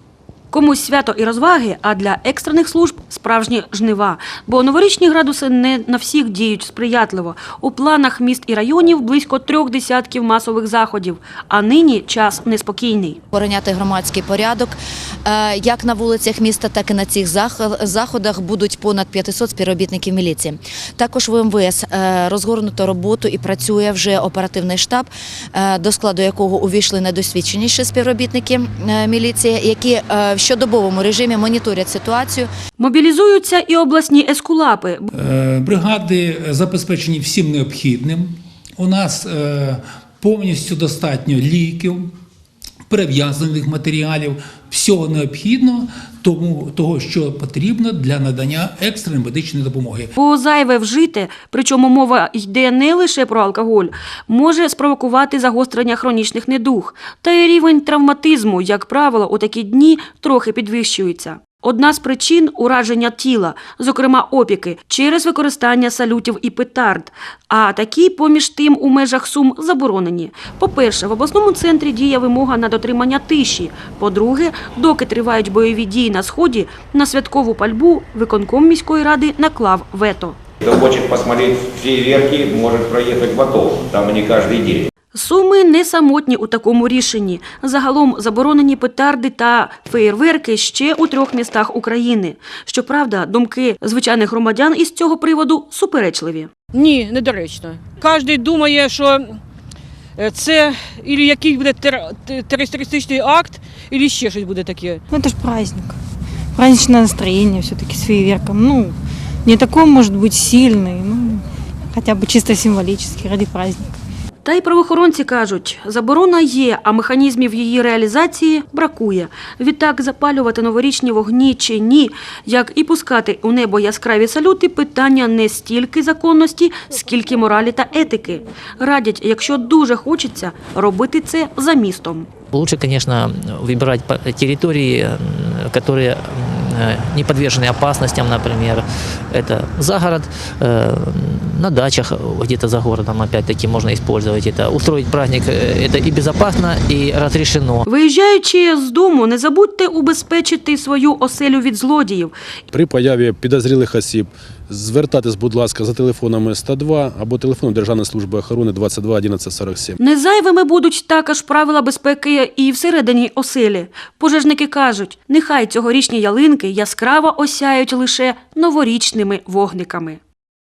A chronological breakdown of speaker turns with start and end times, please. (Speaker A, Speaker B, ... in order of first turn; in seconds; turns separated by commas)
Speaker A: 0.5-13.2, Speaker B: 13.3-32.5, Speaker A: 32.8-35.1, Speaker C: 35.2-42.1, Speaker C: 42.9-50.1, Speaker A: 50.2-80.4, Speaker D: 80.6-84.9, Speaker A: 85.1-96.5, Speaker E: 96.7-99.4, Speaker E: 100.2-105.0, Speaker F: 105.1-106.0, Speaker F: 106.5-113.8, Speaker A: 114.5-132.3, Speaker G: 132.5-147.8, Speaker A: 147.9-152.3, Speaker H: 152.7-160.0, Speaker A: 160.0-170.2